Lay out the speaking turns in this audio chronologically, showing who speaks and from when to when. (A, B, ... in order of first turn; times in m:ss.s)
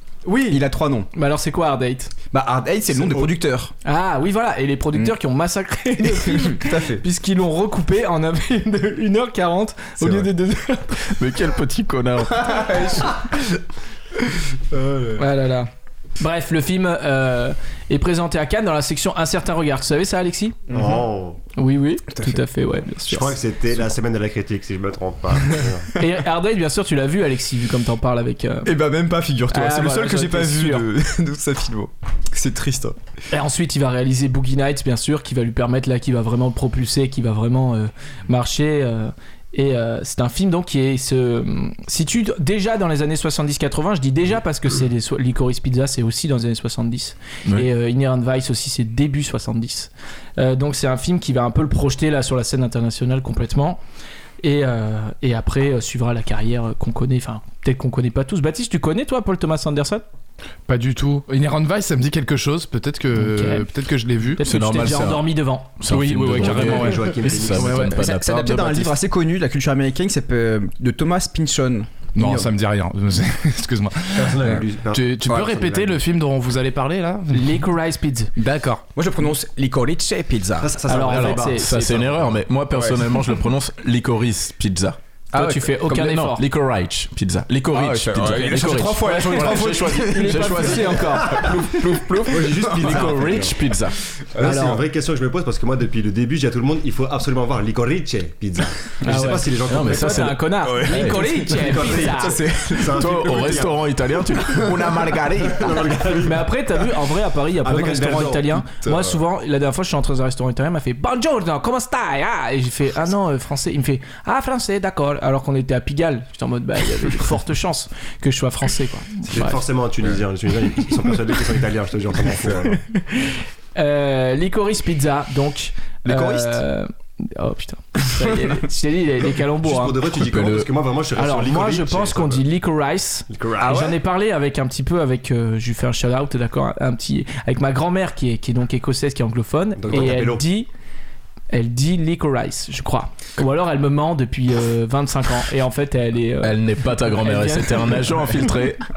0:00.2-0:00.6 A
0:00.5-0:01.1 B
0:01.1-0:02.1 A
0:02.3-0:03.7 B
0:03.8-0:11.0 A
0:06.0-0:07.0 B
0:10.0-0:10.3 B
0:11.0-0:12.9 C
0:12.4-0:13.4 B
0:14.7-0:15.1 B
0:15.2-0:20.7 A
0:20.7-0:21.4 D
0:20.7-0:21.0 B
0:21.6-0:23.4 A
0:22.1-0:22.4 B
0:23.1-0:25.9 D
0:25.9-0:28.7 A
0:28.6-0:33.0 B
0:29.5-0:30.9 A
0:33.3-0:53.8 A
0:54.4-1:00.0 A
1:00.7-1:04.4 E
1:03.1-1:03.7 A
1:04.4-1:05.8 A
1:04.4-1:09.0 C
1:05.9-1:08.0 E
1:06.4-1:07.9 D
1:07.8-1:12.5 B
1:12.2-1:17.6 E
1:14.1-1:16.0 D
1:17.3-1:18.3 A
1:18.4-1:20.8 B
1:18.4-1:18.8 E
1:20.6-1:22.4 D
1:20.9-1:21.8 A
1:20.9-1:25.0 C
1:22.7-1:23.1 B
1:25.3-1:26.2 B
1:25.3-1:26.4 A
1:25.9-1:31.4 C
1:27.7-1:33.6 B
1:29.0-1:31.8 A
1:32.3-1:33.6 D
1:32.3-1:34.0 C
1:34.3-1:40.4 D
1:34.4-1:34.6 B
1:34.4-1:34.8 A
1:39.0-1:42.4 A
1:39.6-1:41.2 C
1:40.6-1:43.6 B
1:41.4-1:43.8 D
1:42.9-1:46.0 C
1:45.4-1:46.5 D
1:46.2-1:59.6 A
1:47.6-1:48.9 D
1:59.3-2:02.8 D
2:02.9-2:10.0 A
2:06.0-2:06.6 B
2:09.6-2:12.4 D
2:10.1-2:10.7 C
2:11.1-2:20.7 A
2:13.3-2:13.8 D
2:13.6-2:14.0 B
2:19.8-2:20.4 D
2:21.5-2:28.3 A
2:26.4-2:28.8 C